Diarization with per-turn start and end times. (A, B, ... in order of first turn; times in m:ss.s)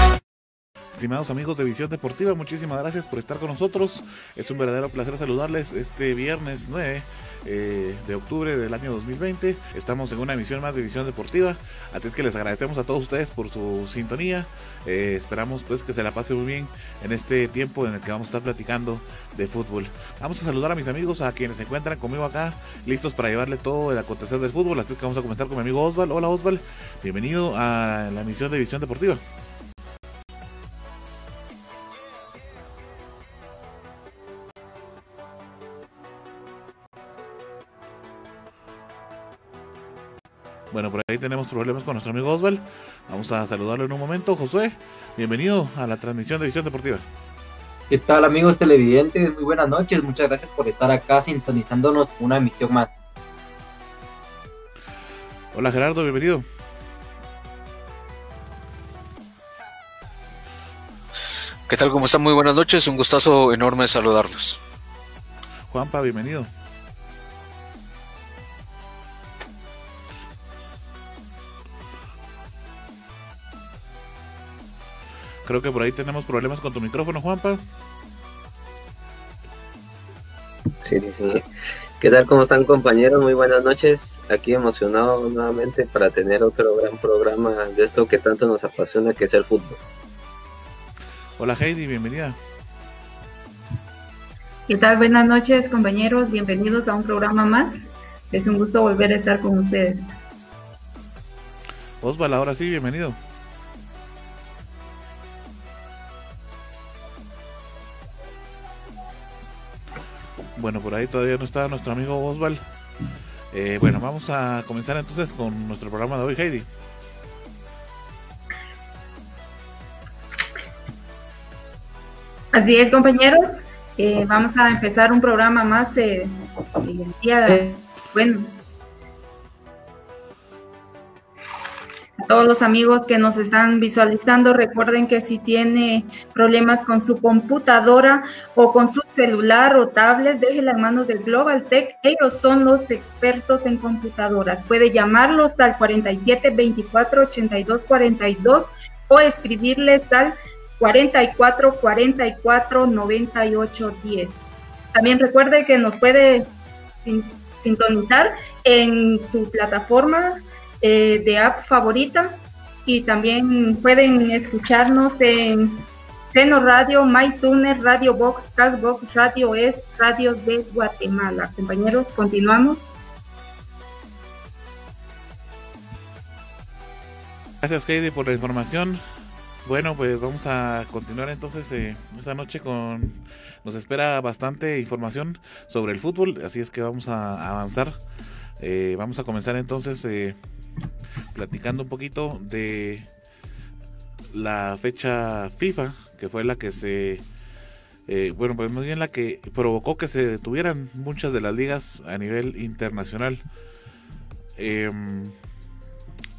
0:00.9-0:29.2 A
0:40.7-0:47.1 A
0:47.9-0:52.9 B
0:55.5-0:56.5 A
1:01.7-1:04.6 C
1:05.7-1:06.5 A
1:15.4-1:17.6 A
1:20.8-1:21.4 D
1:22.0-1:29.8 D
1:31.4-1:32.4 A
1:34.7-1:37.7 E
1:38.3-1:40.0 E
1:42.0-1:43.2 A
1:50.6-1:52.6 A
1:53.5-1:56.7 A
2:02.5-2:08.6 E
2:12.2-2:34.4 E
2:34.9-2:36.5 E
2:37.0-2:52.9 E
2:57.6-2:59.0 A
2:59.6-3:08.0 A
3:08.6-3:10.4 A
3:11.3-3:13.1 A
3:14.3-3:17.2 A
3:18.1-3:23.4 A
3:24.6-3:25.4 A